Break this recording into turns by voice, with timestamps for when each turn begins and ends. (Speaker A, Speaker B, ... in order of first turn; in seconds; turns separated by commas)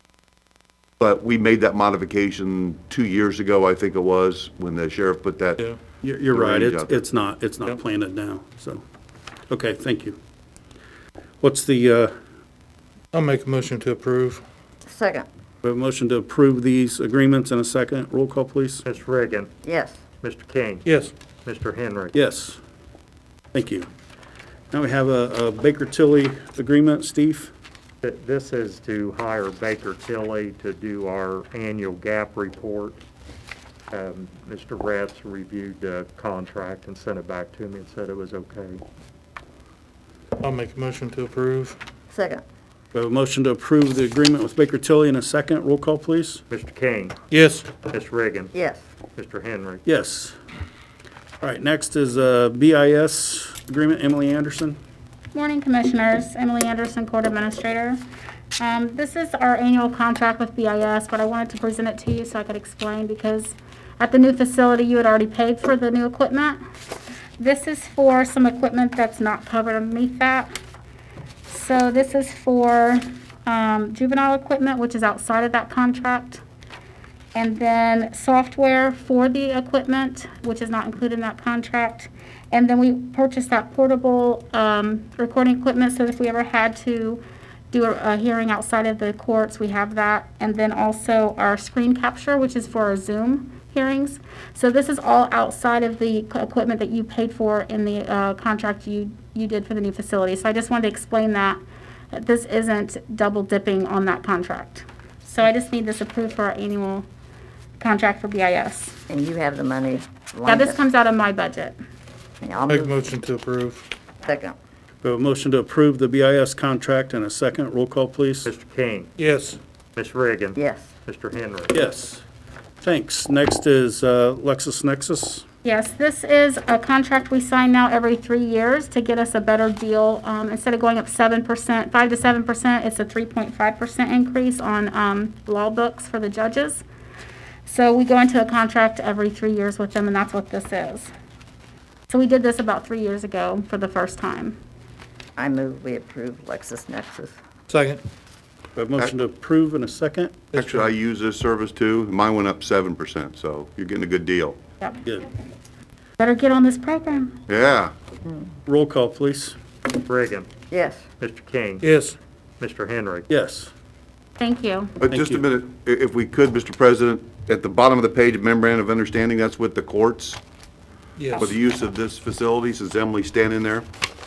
Speaker A: 1.0-5.6, Speaker B: 6.0-8.8, Speaker A: 6.3-7.0, Speaker B: 9.5-10.2, Speaker B: 11.4-12.1, Speaker C: 13.1-14.4, Speaker D: 14.8-15.2, Speaker B: 15.6-18.8, Speaker E: 18.8-19.5, Speaker D: 19.6-20.0, Speaker E: 20.2-20.9, Speaker C: 20.8-21.1, Speaker E: 21.4-22.1, Speaker B: 22.1-22.6, Speaker B: 23.5-23.9, Speaker B: 24.7-27.5, Speaker E: 28.0-33.0, Speaker E: 33.9-38.8, Speaker C: 40.4-41.8, Speaker D: 42.1-42.4, Speaker B: 42.9-46.4, Speaker E: 46.5-47.1, Speaker C: 47.3-47.8, Speaker E: 47.8-48.5, Speaker D: 48.5-48.8, Speaker E: 49.1-49.8, Speaker B: 49.8-50.4, Speaker B: 51.4-54.8, Speaker F: 55.3-58.0, Speaker F: 58.6-66.6, Speaker F: 67.4-70.5, Speaker F: 71.5-76.4, Speaker F: 77.3-101.6, Speaker F: 102.1-107.0, Speaker F: 107.8-109.0, Speaker D: 109.1-110.8, Speaker F: 110.4-111.8, Speaker D: 112.4-112.9, Speaker C: 112.7-113.8, Speaker D: 114.2-114.5, Speaker B: 115.0-118.5, Speaker E: 118.4-119.1, Speaker C: 119.2-119.6, Speaker E: 120.0-121.8, Speaker D: 120.6-120.9, Speaker B: 121.7-122.2, Speaker B: 122.8-125.4, Speaker F: 125.6-136.8, Speaker F: 137.7-141.1, Speaker F: 142.1-144.6, Speaker D: 145.4-147.3, Speaker C: 147.7-148.0, Speaker B: 148.8-150.3, Speaker A: 150.5-154.6, Speaker C: 150.5-150.9, Speaker F: 156.2-157.3, Speaker A: 157.5-157.9, Speaker B: 158.7-159.6, Speaker E: 160.0-160.5, Speaker D: 160.7-161.0, Speaker E: 161.1-161.8, Speaker C: 161.8-162.2, Speaker E: 162.6-163.3, Speaker B: 163.3-163.7, Speaker F: 164.4-165.0, Speaker A: 165.0-170.4, Speaker B: 165.1-165.4, Speaker C: 171.2-171.5, Speaker A: 171.4-173.8